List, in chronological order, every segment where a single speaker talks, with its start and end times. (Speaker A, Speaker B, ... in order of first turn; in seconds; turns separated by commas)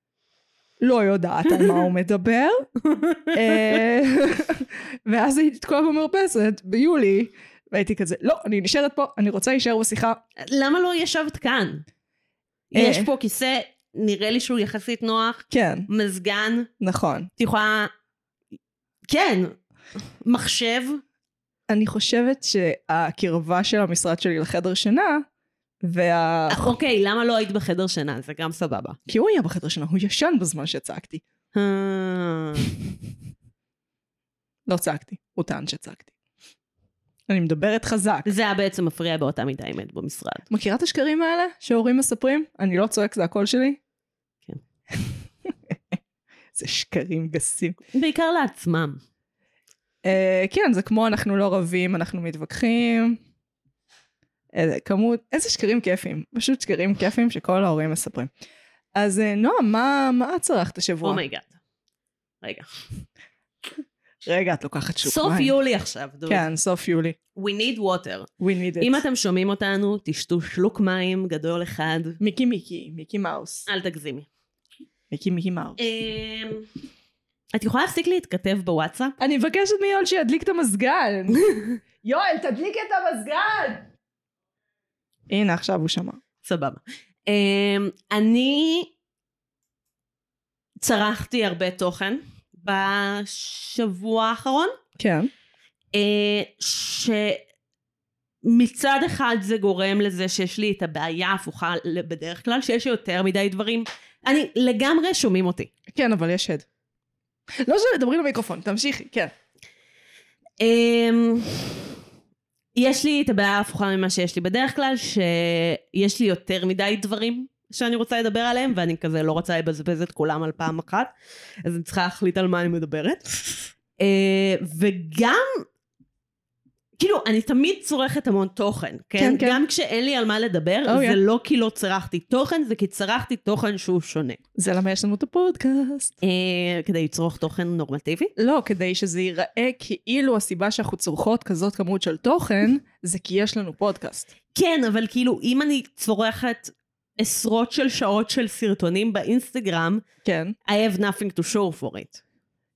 Speaker A: 0.8-2.6, Speaker B: 2.9-3.7, Speaker A: 3.3-10.2, Speaker B: 10.4-11.8, Speaker B: 12.7-16.7, Speaker A: 12.7-13.1, Speaker A: 15.5-15.9, Speaker A: 16.8-17.3, Speaker B: 17.4-17.9, Speaker B: 19.1-19.6, Speaker B: 20.2-21.0, Speaker A: 21.7-25.2, Speaker A: 25.8-26.7, Speaker B: 26.5-29.0, Speaker A: 29.1-31.2, Speaker B: 31.5-32.7, Speaker A: 34.7-36.1, Speaker A: 37.3-38.3, Speaker B: 38.2-40.5, Speaker A: 40.5-43.8, Speaker A: 44.9-46.0, Speaker A: 46.5-47.8, Speaker B: 47.9-49.0, Speaker A: 50.0-53.2, Speaker A: 54.5-58.3, Speaker A: 59.0-61.2, Speaker B: 61.0-61.6, Speaker B: 62.4-62.7, Speaker A: 64.2-65.5, Speaker B: 65.0-66.5, Speaker A: 66.3-67.2, Speaker B: 67.4-68.3, Speaker A: 68.4-69.0, Speaker B: 68.8-72.2, Speaker A: 72.2-73.7, Speaker B: 73.7-74.3, Speaker A: 75.1-75.8, Speaker B: 75.8-76.7, Speaker B: 77.5-79.2, Speaker A: 79.2-83.9, Speaker A: 85.3-86.2, Speaker B: 86.4-88.9, Speaker B: 90.8-94.7, Speaker A: 95.0-95.3, Speaker B: 95.9-97.4, Speaker B: 98.4-105.7, Speaker A: 105.9-106.7, Speaker A: 107.5-109.3, Speaker B: 110.6-111.9, Speaker B: 112.8-121.1, Speaker B: 121.7-125.6, Speaker B: 127.0-134.4, Speaker A: 129.2-129.6, Speaker A: 130.9-131.2, Speaker A: 134.6-136.1, Speaker B: 136.2-138.3, Speaker A: 138.4-144.3, Speaker B: 144.5-150.0, Speaker A: 150.2-150.6, Speaker B: 150.7-152.2